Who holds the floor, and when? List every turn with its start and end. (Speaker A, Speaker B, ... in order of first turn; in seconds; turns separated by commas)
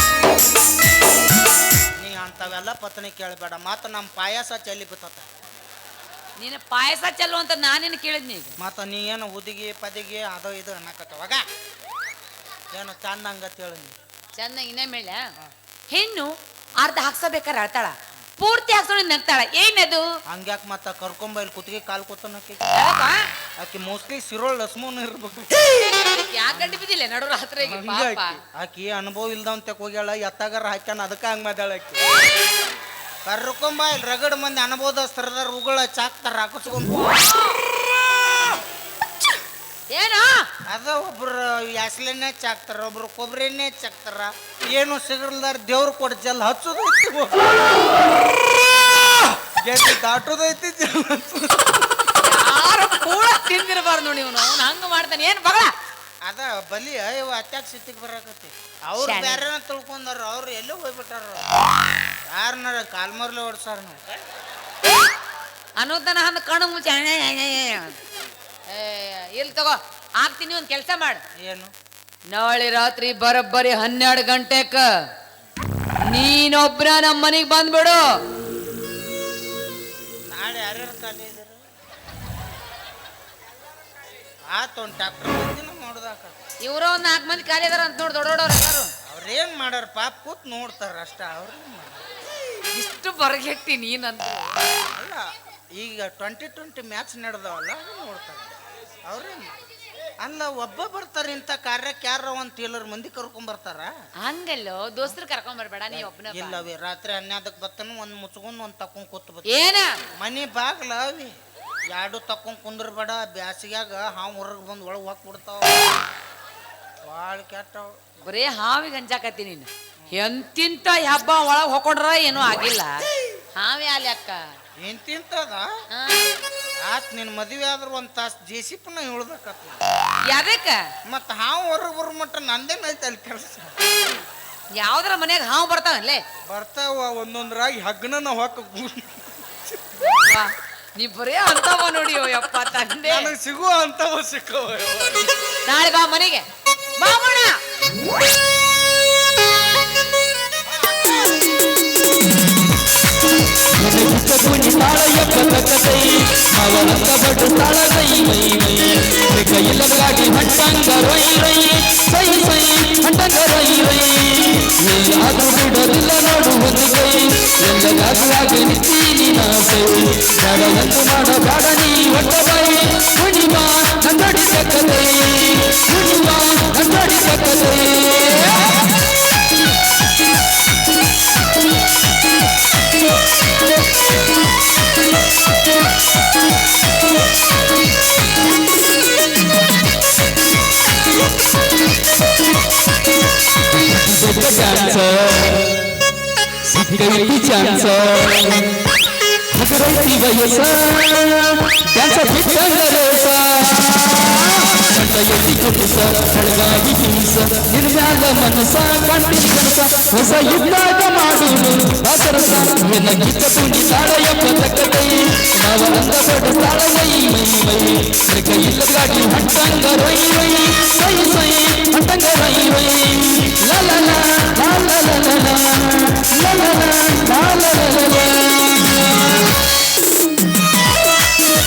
Speaker A: 2.0-5.3, Speaker B: 6.4-8.6, Speaker A: 8.6-11.4, Speaker A: 12.7-14.0, Speaker B: 14.4-15.2, Speaker B: 15.9-20.1, Speaker A: 20.3-22.8, Speaker B: 22.7-23.2, Speaker A: 23.6-25.9, Speaker B: 25.7-28.4, Speaker A: 26.5-26.8, Speaker A: 27.6-32.0, Speaker A: 33.2-37.1, Speaker B: 37.1-37.4, Speaker B: 39.9-40.5, Speaker A: 40.7-47.4, Speaker A: 49.4-51.8, Speaker B: 52.2-55.7, Speaker A: 56.2-61.5, Speaker B: 59.0-59.5, Speaker A: 62.3-64.1, Speaker B: 65.8-68.0, Speaker B: 68.7-71.2, Speaker A: 71.4-71.7, Speaker B: 72.3-74.9, Speaker B: 76.1-78.0, Speaker A: 80.3-81.6, Speaker A: 84.5-86.4, Speaker B: 86.6-88.9, Speaker A: 89.1-92.0, Speaker B: 92.7-94.5, Speaker A: 94.9-95.2, Speaker A: 95.8-98.5, Speaker A: 99.0-99.6, Speaker A: 100.2-103.9, Speaker B: 104.2-106.7, Speaker A: 105.9-109.5, Speaker B: 109.5-110.0, Speaker A: 110.2-111.3, Speaker A: 111.9-116.0, Speaker A: 117.1-117.9, Speaker B: 118.2-123.0, Speaker B: 123.5-124.4, Speaker A: 124.8-125.7, Speaker B: 125.9-126.3, Speaker A: 126.8-129.8, Speaker B: 130.2-130.8, Speaker A: 131.1-133.7, Speaker B: 134.8-136.2, Speaker A: 136.5-139.6, Speaker B: 140.0-143.3, Speaker A: 143.0-145.3, Speaker B: 145.7-146.4, Speaker B: 147.0-147.6, Speaker A: 150.7-151.4, Speaker C: 153.8-178.9, Speaker C: 193.8-196.0, Speaker C: 196.7-198.8, Speaker C: 199.5-229.3